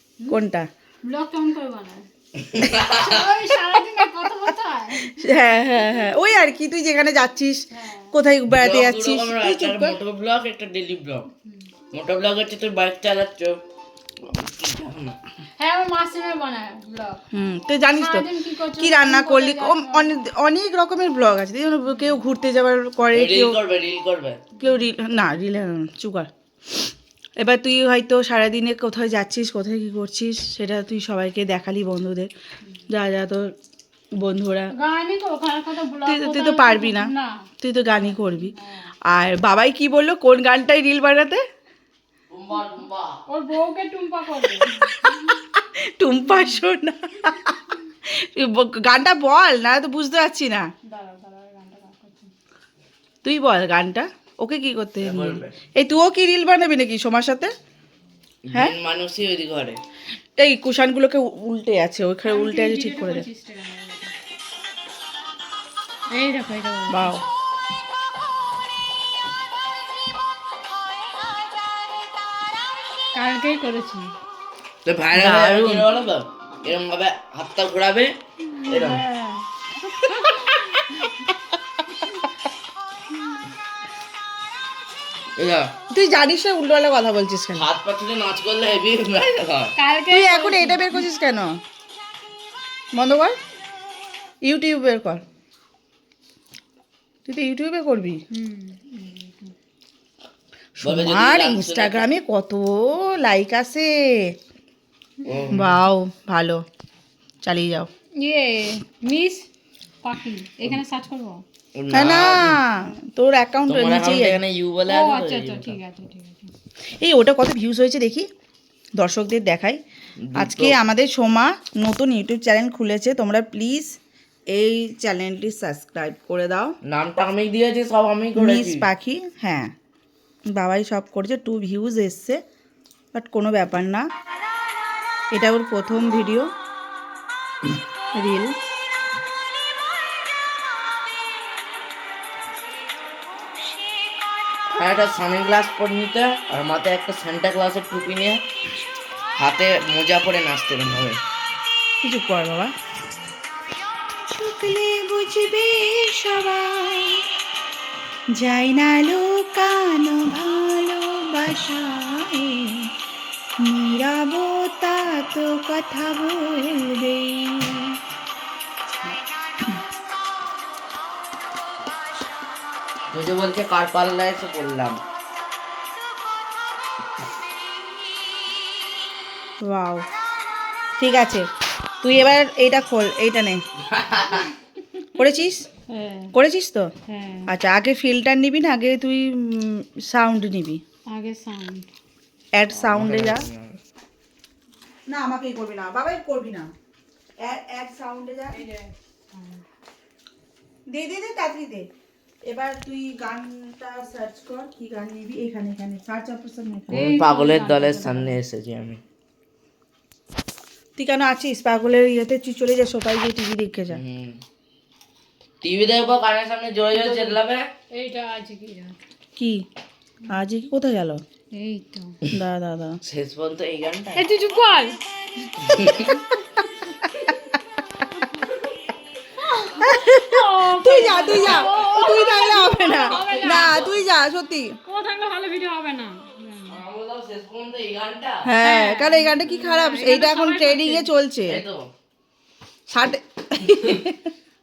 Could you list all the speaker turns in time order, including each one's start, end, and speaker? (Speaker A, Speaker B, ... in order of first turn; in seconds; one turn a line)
Speaker A: 0.3-0.7
Speaker B: 1.0-2.0
Speaker C: 2.4-3.3
Speaker B: 2.7-5.2
Speaker A: 5.0-10.0
Speaker B: 7.7-8.1
Speaker C: 8.5-11.3
Speaker C: 11.9-13.6
Speaker C: 14.2-15.2
Speaker B: 15.6-17.2
Speaker A: 17.3-23.6
Speaker B: 17.9-20.1
Speaker C: 23.1-24.4
Speaker A: 24.6-26.3
Speaker A: 27.4-32.3
Speaker A: 32.9-33.5
Speaker A: 34.2-34.7
Speaker B: 34.7-38.9
Speaker A: 36.0-38.5
Speaker A: 39.1-41.4
Speaker C: 42.3-43.2
Speaker B: 43.3-45.2
Speaker A: 45.5-50.7
Speaker B: 50.9-52.3
Speaker A: 53.2-57.5
Speaker C: 55.0-55.5
Speaker C: 58.4-59.8
Speaker A: 60.4-63.2
Speaker B: 62.2-64.1
Speaker B: 66.1-67.1
Speaker A: 66.9-67.2
Speaker B: 73.1-74.1
Speaker C: 74.8-78.1
Speaker A: 75.1-75.9
Speaker B: 78.5-79.4
Speaker C: 78.7-79.0
Speaker B: 80.0-80.9
Speaker A: 80.3-80.7
Speaker C: 85.4-85.7
Speaker A: 85.9-87.6
Speaker C: 87.5-89.7
Speaker B: 89.3-91.1
Speaker A: 90.1-91.6
Speaker A: 93.0-93.3
Speaker A: 94.4-95.2
Speaker A: 97.2-98.2
Speaker B: 98.3-99.5
Speaker A: 100.8-104.3
Speaker C: 100.8-102.1
Speaker C: 105.2-105.8
Speaker A: 105.5-106.6
Speaker A: 107.4-107.9
Speaker B: 108.2-109.5
Speaker B: 110.0-111.4
Speaker C: 111.7-112.6
Speaker A: 111.9-114.4
Speaker C: 113.7-115.8
Speaker B: 114.8-116.5
Speaker A: 117.0-118.3
Speaker A: 119.0-119.8
Speaker C: 120.3-120.8
Speaker A: 120.4-123.9
Speaker A: 124.5-126.7
Speaker C: 126.8-128.9
Speaker A: 128.4-129.7
Speaker A: 130.5-132.4
Speaker A: 133.1-134.0
Speaker A: 135.3-136.5
Speaker A: 138.1-138.5
Speaker C: 144.7-148.4
Speaker C: 149.4-151.2
Speaker A: 152.0-152.7
Speaker A: 154.3-157.2
Speaker A: 158.4-162.9
Speaker A: 163.6-168.0
Speaker C: 173.1-175.0
Speaker A: 179.7-180.0
Speaker A: 181.0-181.4
Speaker A: 182.0-183.6
Speaker C: 183.8-184.5
Speaker A: 185.1-185.7
Speaker B: 185.9-186.3
Speaker A: 186.3-186.9
Speaker B: 187.1-187.5
Speaker A: 187.5-190.8
Speaker B: 191.1-191.9
Speaker A: 192.6-193.4
Speaker C: 192.7-193.8
Speaker A: 195.1-196.7
Speaker A: 197.4-198.6
Speaker B: 198.5-199.6
Speaker A: 200.9-201.9
Speaker A: 202.4-207.1
Speaker B: 206.9-208.3
Speaker C: 206.9-209.0
Speaker A: 211.0-214.0
Speaker C: 213.9-214.4
Speaker C: 215.6-217.7
Speaker B: 216.9-217.4
Speaker B: 217.9-219.0
Speaker A: 219.4-219.6
Speaker A: 220.3-221.2
Speaker B: 221.5-222.2
Speaker A: 222.3-223.0
Speaker C: 223.0-224.2
Speaker B: 224.1-225.0
Speaker C: 225.6-226.2
Speaker A: 225.7-226.2
Speaker B: 226.9-227.5
Speaker B: 229.4-234.0
Speaker A: 229.7-234.8
Speaker C: 233.1-233.9
Speaker B: 234.8-236.8
Speaker C: 236.7-238.5
Speaker A: 238.4-241.6
Speaker B: 238.6-241.1
Speaker C: 241.5-241.9
Speaker A: 242.9-244.3